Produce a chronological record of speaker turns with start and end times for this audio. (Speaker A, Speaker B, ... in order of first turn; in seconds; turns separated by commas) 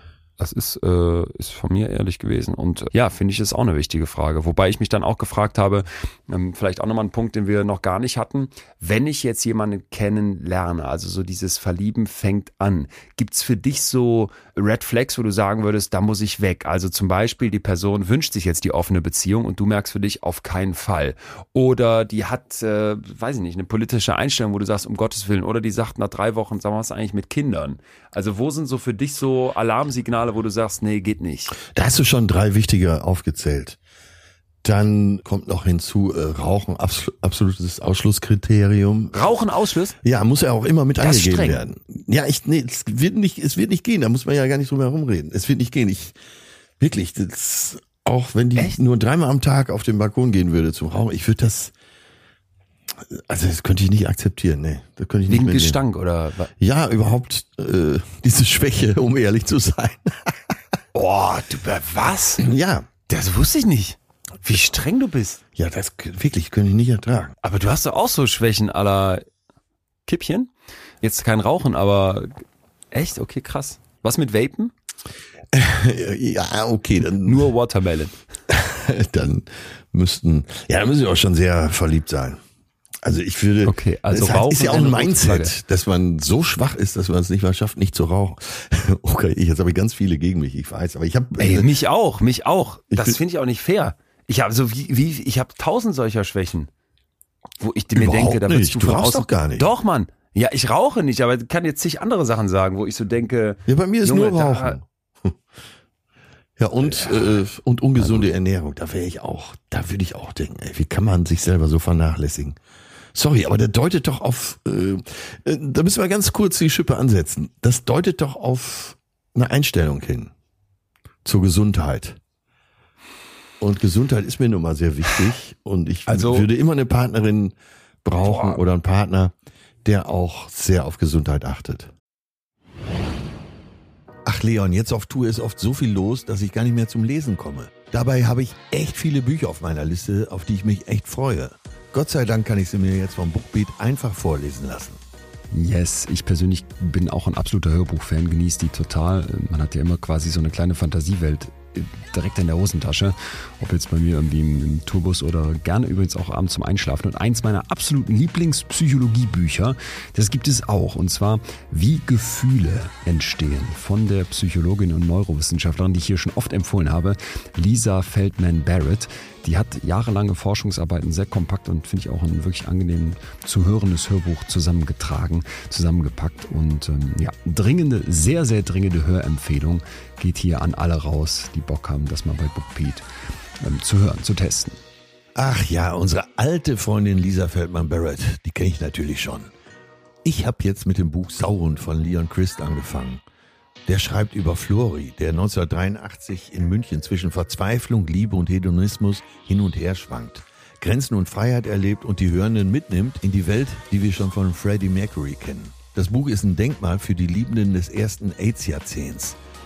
Speaker A: 0.4-31.6, Speaker B: 31.6-33.8, Speaker B: 34.6-39.3, Speaker A: 39.1-40.0, Speaker B: 40.0-46.2, Speaker A: 41.0-41.6, Speaker B: 46.8-51.7, Speaker B: 53.1-55.8, Speaker A: 55.3-56.5, Speaker B: 56.6-60.6, Speaker A: 60.9-62.4, Speaker B: 62.4-62.9, Speaker A: 63.1-65.4, Speaker B: 65.5-67.3, Speaker A: 67.4-69.2, Speaker A: 70.0-70.5, Speaker A: 71.0-74.7, Speaker B: 75.5-77.5, Speaker A: 77.2-78.2, Speaker B: 78.5-82.4, Speaker B: 83.0-91.7, Speaker A: 83.6-85.5, Speaker A: 91.4-96.7, Speaker B: 92.9-93.2, Speaker A: 97.6-104.8, Speaker B: 98.0-99.7, Speaker B: 103.7-105.4, Speaker B: 106.6-112.6, Speaker A: 106.8-107.3, Speaker A: 108.0-108.3, Speaker B: 113.1-120.3, Speaker B: 121.2-122.2, Speaker B: 123.6-131.9, Speaker A: 126.1-126.5, Speaker A: 128.2-128.6, Speaker B: 134.2-145.0, Speaker A: 145.5-183.1, Speaker A: 183.6-184.8, Speaker B: 185.3-189.5, Speaker B: 190.2-193.2, Speaker B: 193.8-209.4